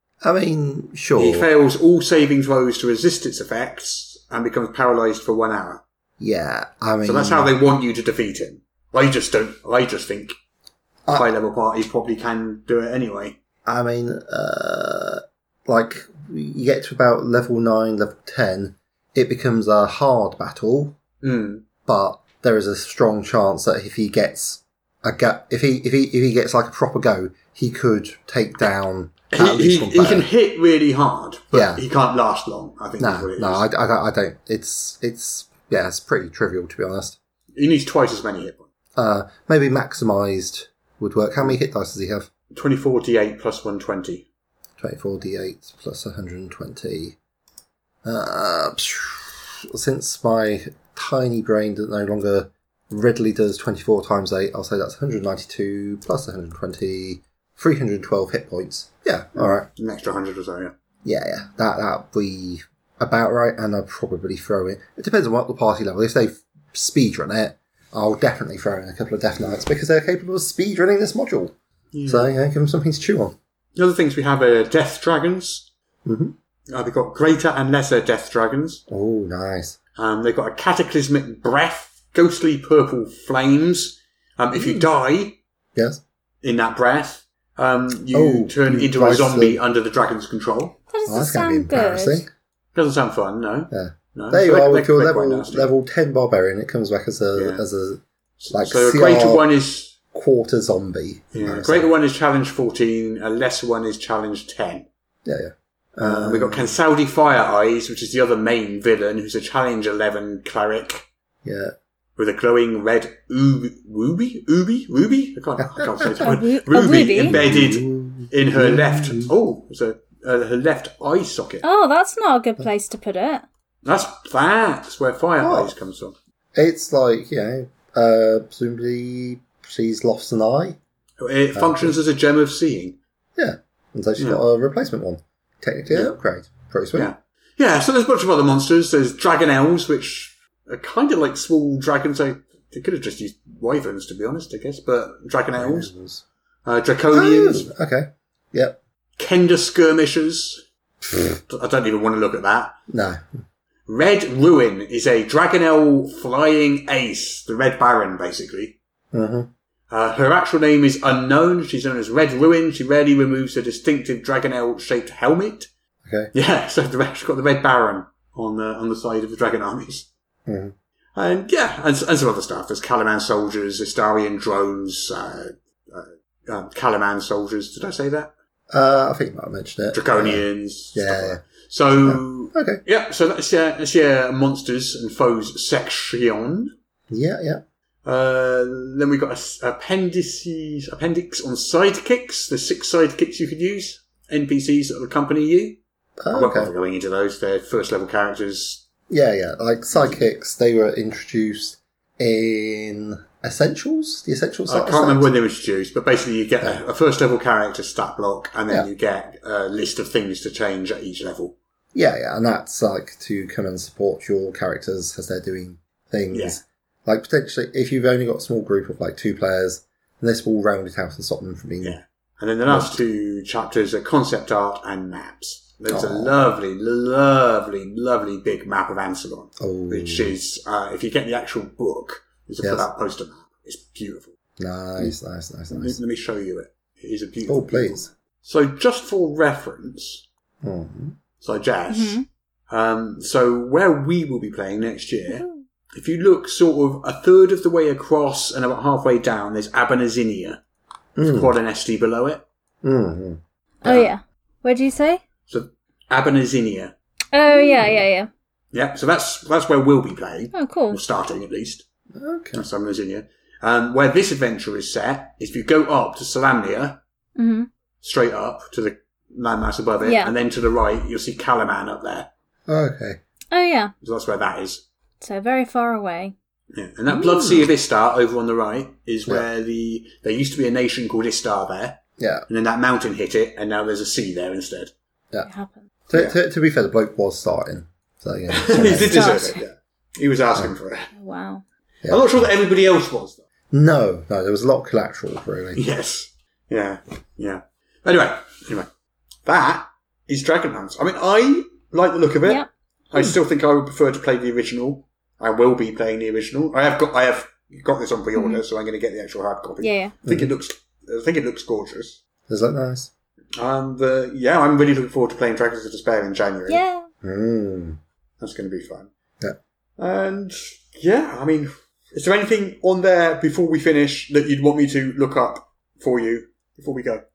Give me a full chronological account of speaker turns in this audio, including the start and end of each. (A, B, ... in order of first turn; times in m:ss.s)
0:00.2-0:01.5 A
0:01.2-0:05.8 B
0:06.2-0:07.5 A
0:07.0-0:10.3 B
0:11.1-0:13.4 B
0:13.6-0:21.0 A
0:21.2-0:21.6 B
0:21.8-0:30.3 A
0:29.3-0:33.6 B
0:31.5-0:31.8 A
0:33.0-0:37.2 A
0:37.6-0:38.6 B
0:39.0-0:42.3 A
0:42.5-0:44.2 B
0:44.8-0:47.2 A
0:48.0-0:59.7 A
0:59.4-1:00.7 B
1:01.0-1:11.5 A
1:11.9-1:12.3 B
1:12.0-1:13.4 A
1:13.8-1:15.7 B
1:16.0-1:16.3 A
1:16.7-1:18.8 B
1:18.9-1:19.8 A
1:20.0-1:25.4 B
1:24.5-1:24.8 A
1:25.7-1:26.0 A
1:26.4-1:30.8 B
1:28.1-1:29.6 A
1:30.9-1:32.2 C
1:31.1-1:32.3 A
1:32.7-1:35.7 B
1:33.7-1:38.0 A
1:37.3-1:37.6 B
1:38.4-1:40.0 B
1:38.5-1:39.4 A
1:40.1-1:41.9 A
1:41.3-1:44.9 B
1:45.2-1:46.7 A
1:46.0-1:51.1 B
1:51.4-1:51.7 A
1:52.2-2:01.6 B
1:55.6-1:59.3 A
1:56.2-1:57.3 C
2:01.6-2:03.4 C
2:03.8-2:06.1 B
2:05.4-2:05.7 A
2:06.5-2:10.8 A
2:11.2-2:13.0 B
2:11.5-2:11.9 A
2:13.4-2:17.1 A
2:16.9-2:25.9 B
2:25.6-2:26.2 A
2:26.6-2:27.7 B
2:27.1-2:28.8 A
2:29.2-2:30.6 B
2:31.2-2:32.7 B
2:32.9-2:33.4 A
2:33.9-2:38.8 B
2:39.1-2:39.5 A
2:39.9-2:45.7 B
2:46.0-2:46.3 A
2:46.3-2:50.1 B
2:50.5-2:50.7 A
2:51.2-2:58.3 B
2:58.7-3:02.8 A
2:59.9-3:06.7 B
3:07.1-3:07.6 A
3:08.0-3:15.8 B
3:16.2-3:16.7 A
3:16.3-3:18.8 B
3:19.1-3:25.3 A
3:24.7-3:31.6 B
3:31.9-3:42.0 A
3:36.3-3:36.6 B
3:41.8-3:54.3 B
3:42.7-3:43.0 A
3:45.9-3:46.3 A
3:49.6-3:50.3 A
3:54.6-3:56.0 A
3:55.7-4:00.2 B
3:57.5-3:58.1 A
4:00.6-4:01.2 A
4:01.4-4:10.6 B
4:01.9-4:02.2 C
4:05.3-4:05.6 C
4:11.2-4:11.5 A
4:11.2-4:12.4 B
4:12.8-4:14.0 A
4:13.8-4:15.2 C
4:15.5-4:16.9 B
4:17.3-4:18.3 C
4:17.5-4:18.0 A
4:18.7-4:21.8 B
4:20.5-4:21.0 C
4:22.1-4:22.6 A
4:22.5-4:27.0 B
4:27.4-4:27.7 C
4:28.0-4:32.3 B
4:30.0-4:30.3 C
4:32.7-4:33.2 A
4:33.5-4:33.9 C
4:34.0-4:34.8 B
4:35.2-4:36.3 C
4:36.7-4:44.9 B
4:42.2-4:42.4 A
4:45.4-4:45.8 C
4:46.1-4:49.4 A
4:48.5-4:51.1 B
4:49.0-4:49.6 C
4:51.1-4:51.6 C
4:52.0-4:52.5 A
4:52.1-4:53.4 B
4:53.7-4:55.8 A
4:55.8-4:58.9 B
4:59.4-5:12.2 B
5:08.3-5:08.6 C
5:09.8-5:10.1 C
5:10.3-5:10.5 A
5:12.5-5:13.1 A
5:13.6-5:16.8 B
5:16.7-5:17.1 C
5:17.2-5:18.0 A
5:18.4-5:19.1 B
5:20.0-5:27.2 B